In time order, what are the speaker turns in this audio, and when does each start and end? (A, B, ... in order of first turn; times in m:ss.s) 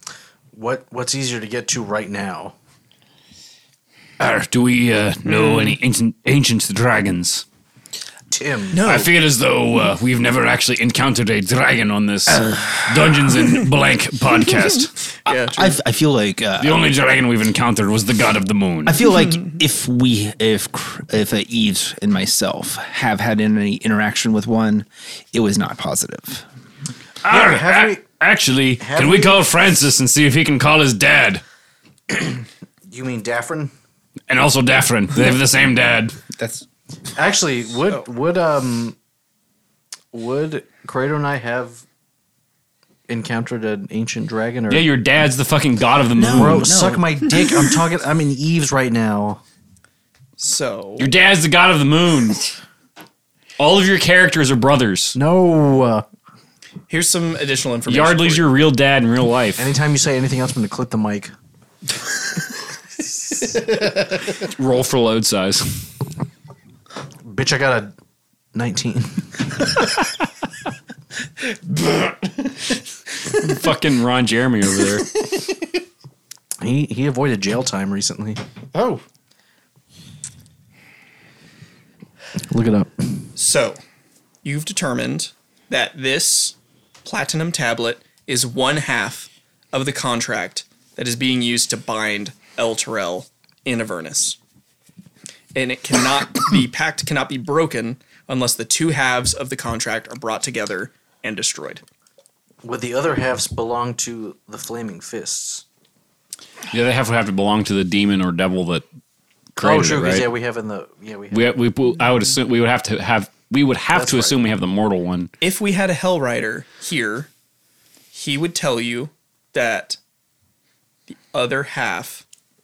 0:00.5-0:02.6 A
0:04.2-0:07.4 B
0:05.2-0:05.8 C
0:08.3-0:08.8 A
0:08.7-0:09.1 C
0:08.8-0:14.9 B
0:15.3-0:15.8 C
0:15.3-0:16.9 D
0:16.6-0:19.0 B
0:18.9-0:26.4 D
0:27.2-0:31.4 B
0:27.3-0:28.0 A
0:28.8-0:29.4 A
0:32.9-0:33.7 A
0:34.3-0:36.2 B
0:36.3-0:36.6 D
0:37.2-0:39.0 A
0:40.1-0:41.8 A
0:43.1-0:44.9 A
0:44.7-0:46.7 B
0:46.1-0:47.0 D
0:46.3-0:49.4 A
0:50.4-0:51.1 C
0:51.0-0:52.5 B
0:53.6-0:55.2 B
0:55.2-0:56.0 A
0:56.9-0:58.5 C
0:57.9-0:59.6 B
0:59.6-1:01.3 A
1:04.4-1:05.8 B
1:07.2-1:07.9 A
1:08.6-1:09.3 A
1:11.6-1:12.5 D
1:13.4-1:15.1 B
1:16.6-1:18.4 A
1:18.7-1:19.0 D
1:22.5-1:23.3 A
1:23.4-1:23.8 C
1:24.4-1:34.4 C
1:35.6-1:41.8 C
1:42.6-1:45.6 A
1:46.7-1:48.8 B
1:49.6-1:50.3 B
1:49.6-1:51.5 A
1:51.3-1:55.3 B
1:53.9-1:54.4 A
1:55.4-1:57.3 C
1:58.1-2:00.0 C
2:01.1-2:02.2 C